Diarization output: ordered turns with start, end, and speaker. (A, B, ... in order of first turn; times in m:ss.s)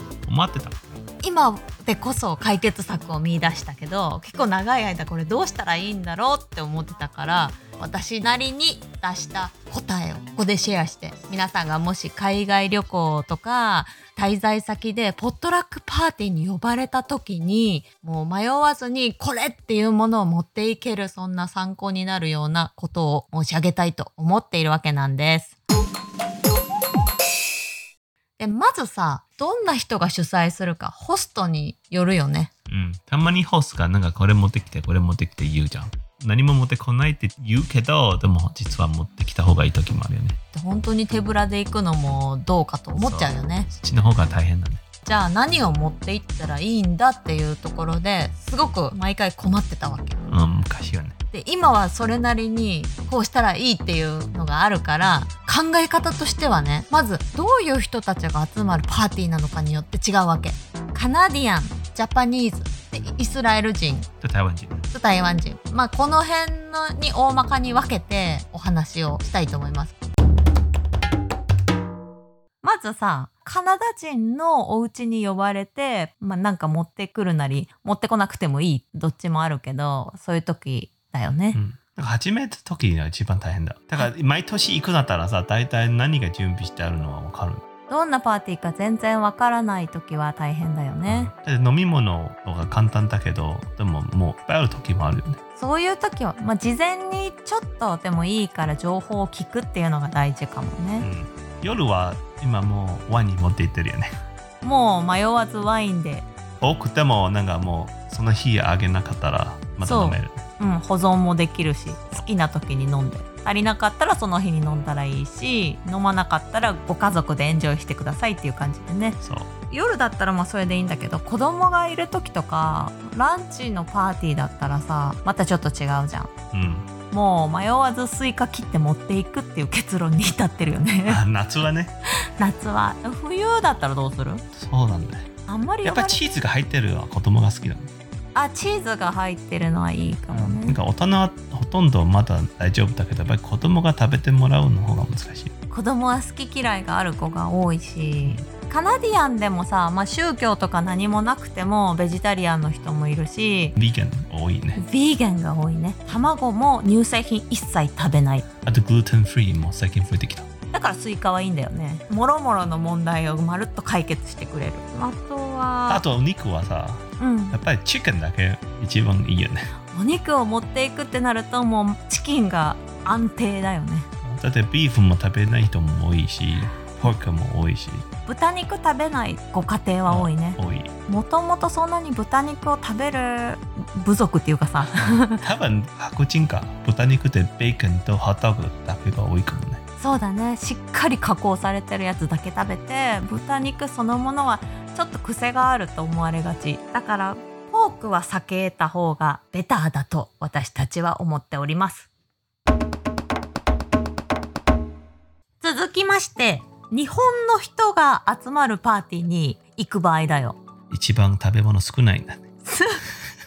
0:00.2-0:00.8 A
0:01.2-0:25.5 B
0:28.4-0:32.5 B
0:32.7-0:40.4 A
0:40.5-0:43.7 B
0:42.9-0:44.8 A
0:45.0-0:50.2 B
0:50.3-0:51.1 A
0:51.3-1:04.1 B
1:04.2-1:04.8 A
1:04.9-1:09.9 B
1:12.6-1:21.6 B
1:21.5-1:27.6 A
1:27.9-1:31.3 B
1:31.0-1:35.4 A
1:35.6-1:41.1 B
1:41.0-1:44.2 A
1:44.6-1:46.3 B
1:46.6-1:50.4 A
1:49.8-1:59.2 B
1:59.2-1:59.5 A
1:59.7-2:06.3 B
2:06.5-2:06.9 A
2:07.1-2:11.2 B
2:11.0-2:11.9 A
2:12.4-2:14.4 B
2:14.5-2:15.3 A
2:15.5-2:16.2 B
2:15.8-2:17.9 A
2:18.3-2:20.8 B
2:20.3-2:25.5 A
2:25.7-2:33.8 B
2:33.8-2:34.8 A
2:34.7-2:38.4 B
2:38.6-2:40.5 A
2:40.7-2:46.0 B
2:45.9-2:49.7 A
2:47.2-2:47.6 B
2:49.9-2:54.1 B
2:54.2-2:58.0 A
2:58.2-3:05.4 B
3:00.0-3:00.9 A
3:05.1-3:09.8 A
3:10.0-3:22.1 B
3:25.6-3:30.6 B
3:30.9-3:32.4 A
3:32.6-3:33.0 B